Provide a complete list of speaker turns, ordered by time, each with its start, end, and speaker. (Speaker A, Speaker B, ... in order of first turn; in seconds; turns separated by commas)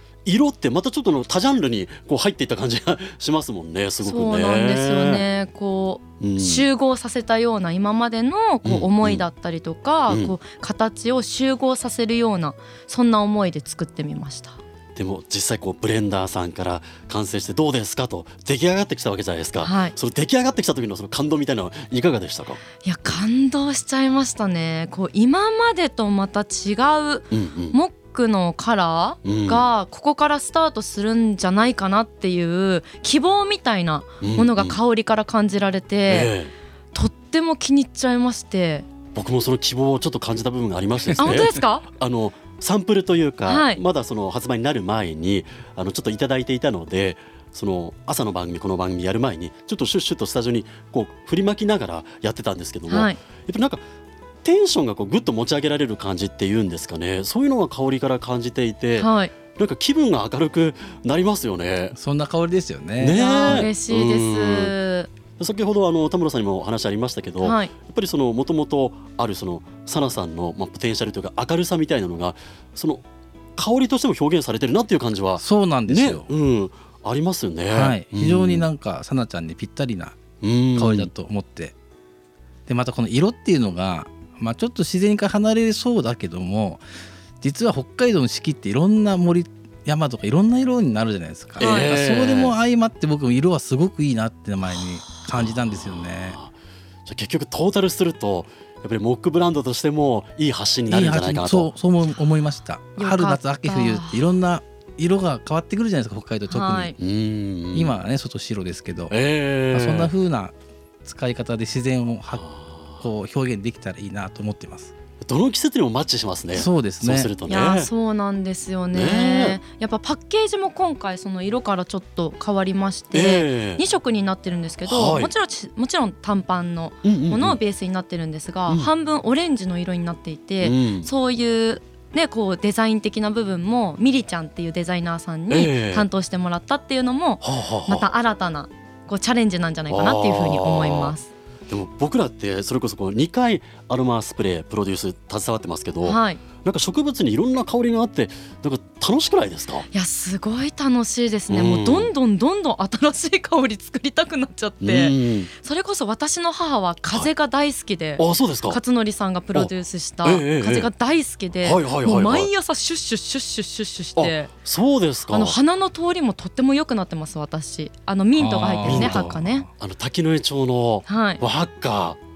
Speaker A: 0.2-5.2, Speaker B: 4.0-14.6, Speaker A: 6.2-6.6, Speaker A: 8.6-9.2, Speaker A: 10.1-10.3, Speaker A: 14.9-22.6, Speaker B: 19.6-19.9, Speaker B: 22.8-36.3, Speaker A: 27.3-27.8, Speaker A: 29.2-29.6, Speaker A: 34.2-34.8, Speaker A: 36.1-36.5, Speaker B: 36.9-38.9, Speaker A: 39.1-53.8, Speaker B: 41.2-41.9, Speaker B: 43.5-43.8, Speaker B: 52.9-53.2, Speaker A: 54.4-61.9, Speaker B: 59.0-59.3, Speaker C: 61.9-63.7, Speaker A: 63.0-64.7, Speaker B: 63.1-65.1, Speaker A: 65.4-73.0, Speaker B: 67.4-67.7, Speaker A: 73.5-78.7, Speaker C: 75.3-76.3, Speaker C: 77.7-80.2, Speaker A: 80.4-81.1, Speaker C: 80.7-81.7, Speaker C: 82.7-86.8, Speaker C: 87.4-96.4, Speaker B: 91.6-91.9, Speaker A: 91.6-92.6, Speaker A: 95.3-96.5, Speaker A: 97.0-101.7, Speaker C: 100.9-106.9, Speaker B: 103.0-104.3, Speaker B: 106.5-106.9, Speaker A: 107.0-108.0, Speaker C: 107.7-109.2, Speaker A: 109.1-110.1, Speaker C: 109.7-114.9, Speaker A: 112.4-113.0, Speaker A: 115.2-117.9, Speaker C: 116.5-117.3, Speaker B: 117.5-141.3, Speaker A: 118.9-119.6, Speaker A: 123.1-123.8, Speaker A: 124.8-125.3, Speaker A: 127.0-127.6, Speaker A: 130.6-131.1, Speaker A: 135.5-136.1, Speaker A: 137.4-138.1, Speaker A: 139.9-141.1, Speaker A: 141.7-149.9, Speaker B: 146.0-146.4, Speaker B: 149.9-164.5, Speaker A: 151.5-152.1, Speaker A: 154.8-155.5, Speaker A: 158.2-158.8, Speaker A: 160.2-160.9, Speaker A: 161.6-162.5, Speaker A: 164.2-165.6, Speaker B: 165.3-169.7, Speaker C: 168.3-169.7, Speaker A: 168.8-172.2, Speaker B: 171.1-171.4